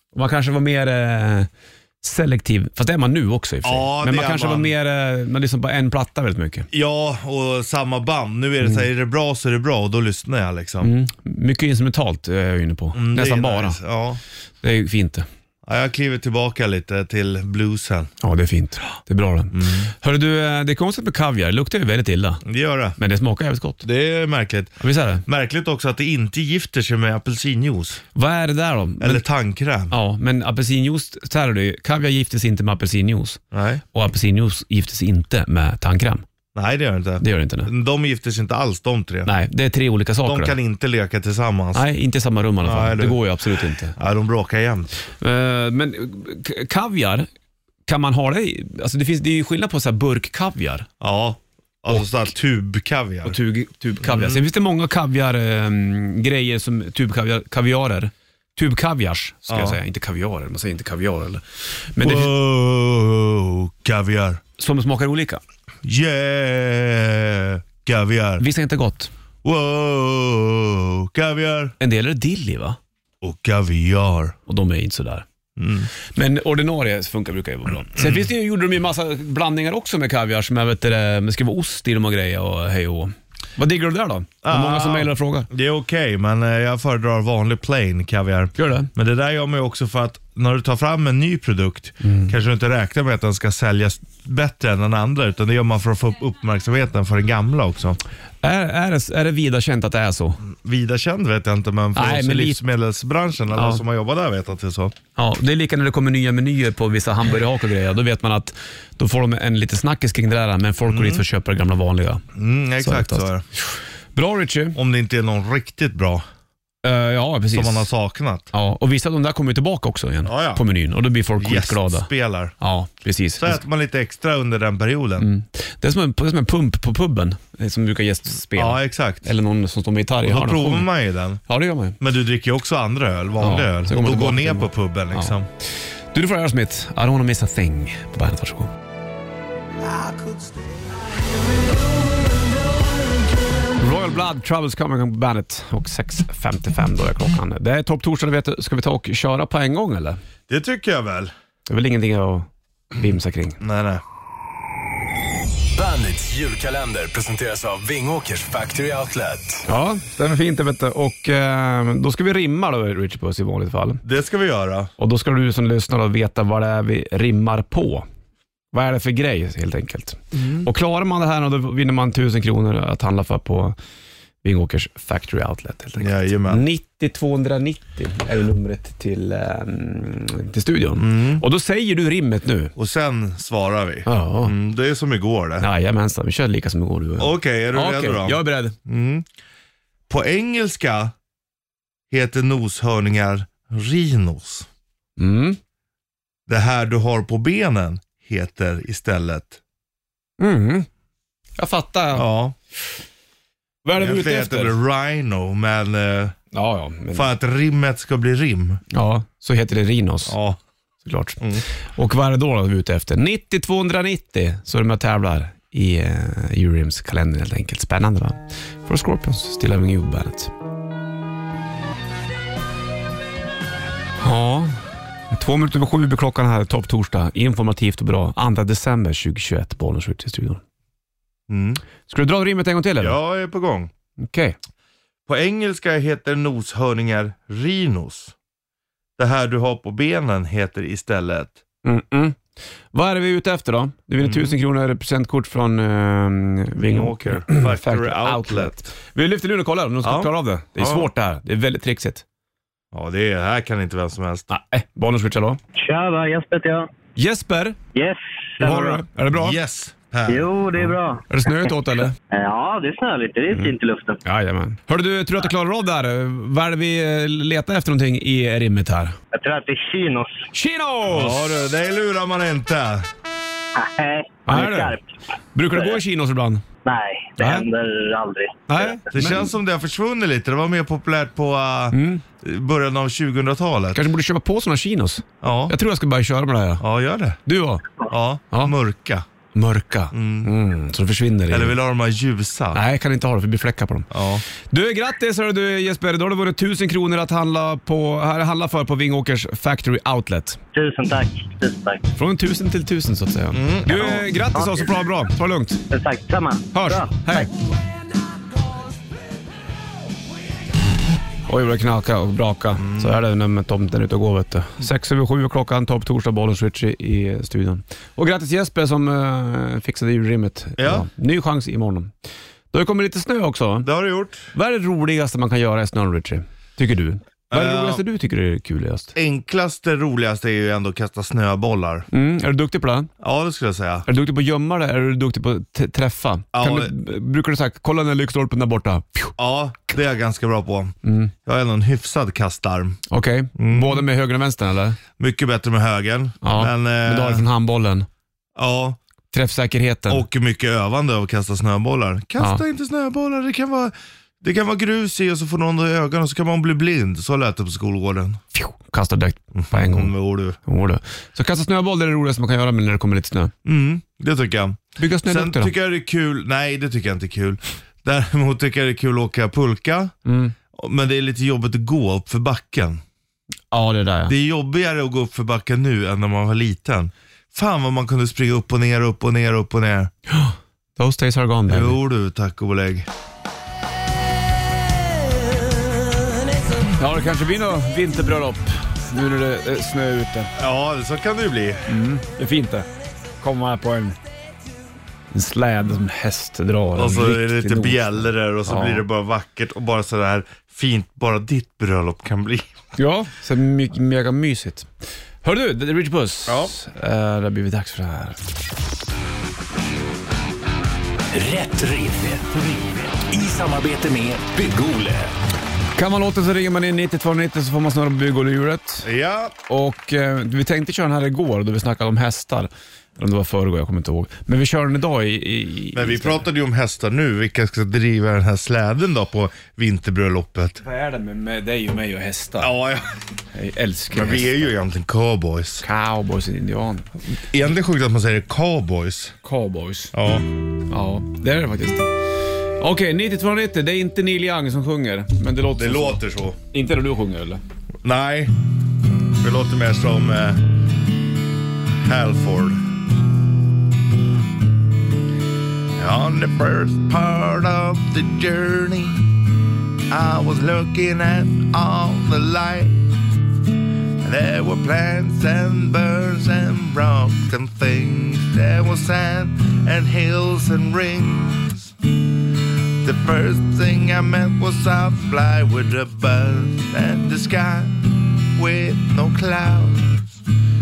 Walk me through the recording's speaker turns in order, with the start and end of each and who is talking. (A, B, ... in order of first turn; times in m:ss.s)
0:00.1-0:01.5 A
0:02.0-0:06.7 A
0:03.6-0:04.7 B
0:06.7-0:10.9 B
0:10.8-0:13.8 A
0:12.9-0:14.2 B
0:14.6-0:15.2 A
0:15.6-0:18.1 B
0:18.2-0:22.4 A
0:19.5-0:19.9 B
0:22.4-0:23.0 B
0:23.0-0:23.8 A
0:23.8-0:28.0 B
0:24.8-0:25.2 A
0:28.1-0:29.2 A
0:29.0-0:29.9 B
0:29.9-0:33.4 A
0:33.5-0:33.8 B
0:33.9-0:36.2 A
0:36.5-0:39.3 B
0:37.2-0:37.7 A
0:39.2-0:40.6 A
0:40.2-0:41.8 B
0:41.7-0:44.0 A
0:42.6-0:43.2 B
0:43.9-0:44.9 B
0:45.2-0:47.3 A
0:47.9-0:50.9 A
0:51.0-0:53.4 B
0:53.2-1:02.3 A
0:54.0-0:54.4 B
0:59.5-0:59.8 B
1:02.0-1:04.4 B
1:04.6-1:05.4 A
1:05.8-1:08.4 B
1:08.4-1:09.1 A
1:09.4-1:11.7 B
1:11.8-1:12.8 A
1:13.2-1:14.3 B
1:14.5-1:15.2 A
1:15.6-1:15.9 B
1:16.1-1:25.5 A
1:18.0-1:18.2 B
1:24.4-1:38.0 B
1:28.6-1:28.9 A
1:32.0-1:32.3 A
1:38.4-1:40.4 A
1:40.4-1:44.9 B
1:41.9-1:42.6 A
1:43.5-1:43.8 A
1:45.2-1:52.2 A
1:50.9-1:51.2 B
1:52.3-1:53.4 B
1:52.8-1:54.8 A
1:54.7-1:56.2 B
1:56.8-1:57.9 A
1:57.5-1:58.5 B
1:58.5-2:03.6 A
2:00.2-2:00.6 B
2:01.4-2:02.5 B
2:03.4-2:05.3 B
2:05.2-2:10.9 A
2:08.5-2:09.2 B
2:10.2-2:11.4 B
2:11.5-2:12.0 A
2:12.0-2:15.5 B
2:13.4-2:15.4 A
2:16.1-2:18.7 A
2:23.8-2:30.2 A
2:30.5-2:31.3 B
2:31.7-2:33.6 A
2:33.6-2:34.0 B
2:35.7-2:39.6 C
2:39.7-2:44.0 A
2:44.0-2:44.9 B
2:45.0-2:48.0 A
2:48.7-2:53.8 A
2:50.3-2:50.7 B
2:54.4-3:02.7 A
2:56.0-2:56.6 B
3:01.0-3:01.4 B
3:02.8-3:05.7 B
3:04.0-3:04.5 A
3:05.6-3:08.7 A
3:07.2-3:09.2 B
3:10.1-3:11.1 B
3:12.1-3:14.7 B
3:15.2-3:15.6 A
3:16.5-3:19.6 B
3:20.4-3:20.9 A
3:21.6-3:22.2 A
3:22.1-3:22.5 B
3:23.8-3:24.8 A
3:24.0-3:26.3 B
3:26.5-3:27.3 A
3:27.1-3:28.8 B
3:28.9-3:30.4 A
3:30.3-3:30.6 B
3:31.0-3:40.5 A
3:44.2-3:44.7 A
3:45.3-3:50.6 A
3:51.5-3:51.8 B
3:52.1-3:53.2 A
3:53.0-3:53.9 B
3:54.2-3:54.6 A
3:55.3-3:58.3 B
3:59.2-4:01.6 B
4:01.8-4:12.2 A
4:04.2-4:04.6 B
4:06.9-4:08.9 B
4:10.0-4:11.1 B
4:12.9-4:14.5 B
4:14.5-4:15.6 A
4:15.8-4:16.9 D
4:17.2-4:17.8 A
4:17.9-4:19.0 D
4:18.6-4:19.6 A
4:19.3-4:20.5 B
4:20.3-4:21.2 D
4:20.9-4:22.1 A
4:22.3-4:24.2 D
4:23.5-4:29.2 A
4:29.3-4:30.5 D
4:30.5-4:31.6 A
4:31.1-4:33.1 B
4:33.8-4:35.1 D
4:34.4-4:35.0 A
4:35.5-4:36.6 A
4:35.7-4:36.0 D
4:36.8-4:39.0 D
4:37.4-4:37.6 A
4:38.7-4:39.5 A
4:39.1-4:44.0 B
4:41.9-4:42.2 A
4:43.9-4:46.8 A
4:45.4-4:45.8 B
4:46.8-4:47.4 B
4:47.4-4:47.8 A
4:48.1-4:49.2 B
4:49.5-4:51.8 A
4:50.1-4:50.5 B
4:51.5-4:52.8 B
4:52.7-4:54.1 A
4:54.1-4:54.4 B
4:54.6-5:00.6 A
5:00.7-5:02.1 D
5:02.2-5:05.8 A
5:03.5-5:04.3 B
5:04.6-5:04.8 D
5:05.9-5:07.5 D
5:06.7-5:07.5 A
5:11.5-5:22.1 A
5:12.8-5:13.2 B
5:20.8-5:21.1 B
5:22.7-5:23.9 A
5:23.8-5:24.5 B
5:24.5-5:29.1 A
5:27.5-5:28.0 B
5:29.1-5:32.1 B
5:32.1-5:33.1 A
5:33.2-5:34.0 B
5:34.0-5:39.4 A
5:36.5-5:36.9 B
5:39.4-5:43.0 B
5:41.0-5:41.3 A
5:43.1-5:45.0 A
5:43.6-5:44.0 B
5:45.2-5:47.4 B
5:46.4-5:48.1 A
5:48.6-5:49.0 B
5:49.3-5:50.2 A
5:50.1-5:58.4 B
5:58.5-6:03.5 A
5:59.5-6:00.6 B
6:03.6-6:10.1 B
6:05.0-6:05.7 A
6:10.2-6:10.5 A
6:10.7-6:13.0 B
6:13.7-6:14.3 A
6:14.3-6:20.1 B
6:20.3-6:22.0 A
6:21.7-6:23.1 B
6:27.0-6:30.5 A
6:30.6-6:31.8 B
6:31.9-6:32.9 A
6:33.4-6:34.2 A
6:35.3-6:39.0 A
6:37.0-6:42.7 B
6:43.0-6:44.9 A
6:45.4-6:48.4 A
6:46.5-6:46.7 B
6:51.3-6:55.3 C
6:56.0-6:59.1 A
6:59.0-6:59.5 B
6:59.7-7:06.4 A
7:05.9-7:10.8 B
7:10.8-7:12.7 A
7:12.6-7:13.1 B
7:13.5-7:14.7 A
7:14.1-7:15.8 B
7:15.8-7:17.1 A
7:17.4-7:19.3 B
7:19.4-7:20.1 A
7:20.1-7:20.4 B
7:20.9-7:27.6 A
7:25.8-7:26.6 B
7:28.0-7:28.5 B
7:29.4-7:30.6 B
7:32.0-7:32.8 B
7:36.0-7:39.3 B
7:40.1-7:43.2 B
7:44.2-7:52.1 B
7:53.0-8:00.4 B